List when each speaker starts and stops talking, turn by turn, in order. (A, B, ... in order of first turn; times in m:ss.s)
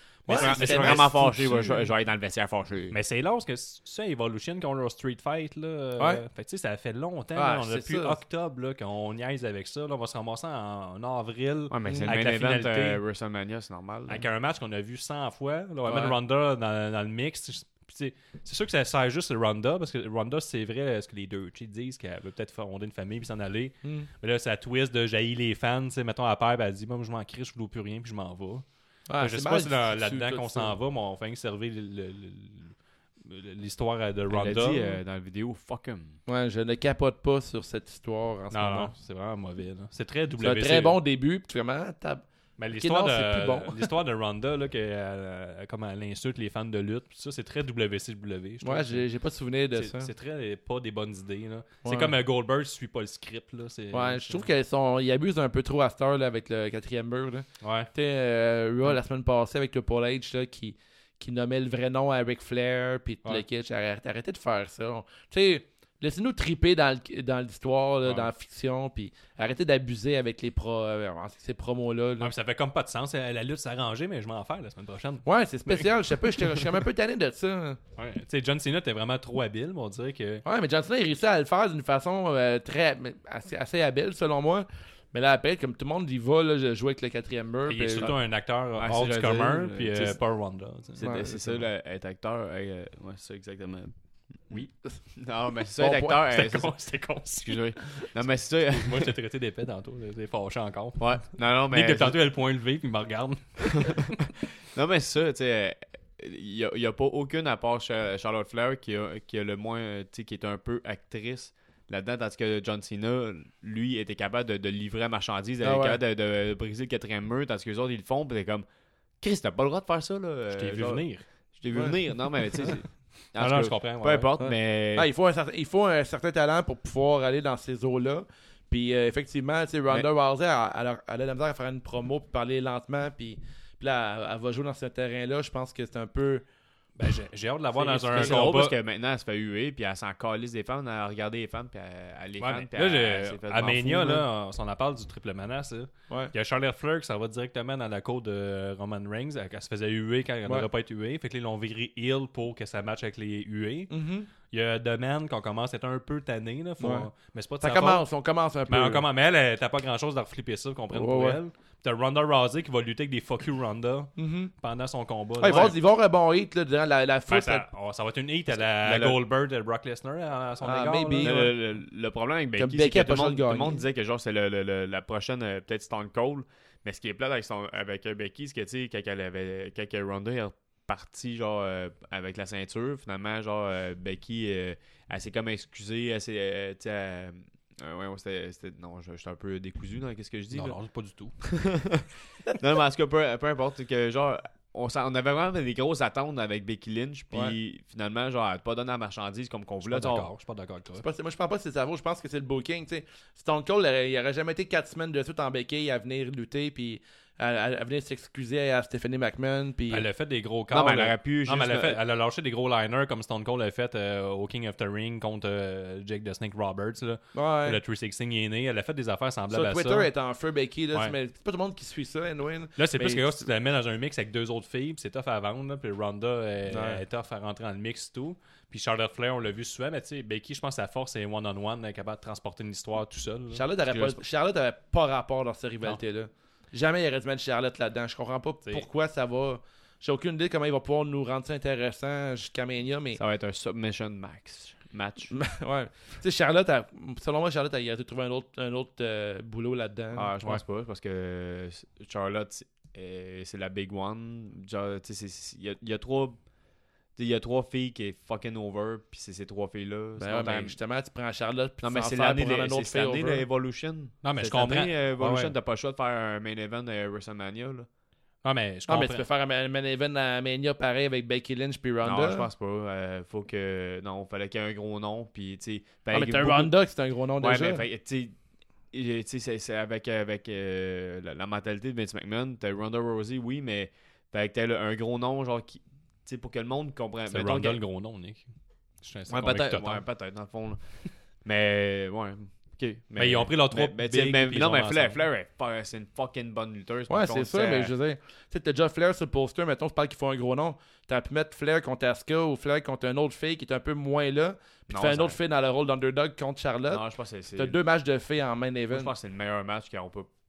0:00.2-0:01.3 A
0:00.3-0:01.9 B
0:00.3-0:03.0 C
0:02.9-0:13.0 A
0:06.0-0:06.2 B
0:07.4-0:08.2 B
0:11.7-0:14.2 C
0:11.8-0:12.1 B
0:14.1-0:28.6 A
0:15.9-0:16.2 B
0:23.8-0:24.1 B
0:29.1-0:30.8 B
0:29.2-0:35.0 A
0:34.3-0:36.2 C
0:36.3-0:38.9 B
0:38.5-0:41.0 A
0:40.4-0:42.3 B
0:42.6-0:49.0 A
0:42.8-0:43.9 B
0:48.6-0:50.1 B
0:49.8-0:54.5 A
0:51.8-0:52.2 B
0:53.9-1:12.3 B
0:57.6-0:57.9 A
1:08.0-1:08.3 A
1:12.2-1:15.9 A
1:15.2-1:17.8 B
1:18.0-1:20.4 A
1:20.4-1:28.1 B
1:27.7-1:31.6 A
1:28.8-1:30.2 C
1:31.0-1:34.0 C
1:31.0-1:31.5 B
1:35.2-1:39.1 C
1:35.8-1:36.2 B
1:36.2-1:38.1 A
1:38.7-1:44.2 A
1:41.0-1:42.2 C
1:44.7-1:58.7 C
1:55.6-1:56.0 B
1:59.2-2:05.1 C
2:00.5-2:01.3 A
2:01.7-2:02.0 B
2:03.4-2:04.3 A
2:04.4-2:16.4 B
2:17.0-2:18.8 A
2:17.8-2:24.1 C
2:22.4-2:38.0 A
2:24.0-2:24.2 B
2:33.9-2:34.3 B
2:36.8-2:37.1 B
2:37.6-2:39.0 B
2:38.7-2:45.8 A
2:40.9-2:41.4 B
2:44.2-2:44.5 B
2:45.4-2:47.7 B
2:47.3-2:51.5 A
2:48.5-2:49.2 C
2:50.6-2:51.5 B
2:51.2-3:10.8 C
2:52.6-2:53.8 B
3:10.5-3:11.4 A
3:11.4-3:20.3 C
3:19.8-3:21.0 A
3:21.0-3:30.1 B
3:29.9-3:40.1 A
3:30.7-3:32.0 C
3:37.3-3:37.8 B
3:39.5-3:43.4 B
3:42.8-3:53.6 A
3:46.7-3:47.0 B
3:53.5-4:03.2 B
3:53.9-3:54.2 C
4:03.2-4:05.3 C
4:05.3-4:10.3 B
4:10.1-4:16.4 C
4:17.2-4:20.8 C
4:20.2-4:23.4 B
4:21.8-4:27.9 C
4:24.2-4:25.5 A
4:28.4-4:29.2 A
4:28.9-4:32.5 B
4:32.0-4:36.8 C
4:36.1-4:37.8 B
4:37.4-4:38.4 C
4:38.9-4:47.8 C
4:47.3-4:48.5 A
4:49.0-4:50.0 A
4:49.3-4:57.9 C
4:53.2-4:55.2 A
4:57.1-5:07.0 B
5:04.9-5:05.4 C
5:06.9-5:07.8 C
5:07.6-5:09.1 B
5:08.9-5:10.3 C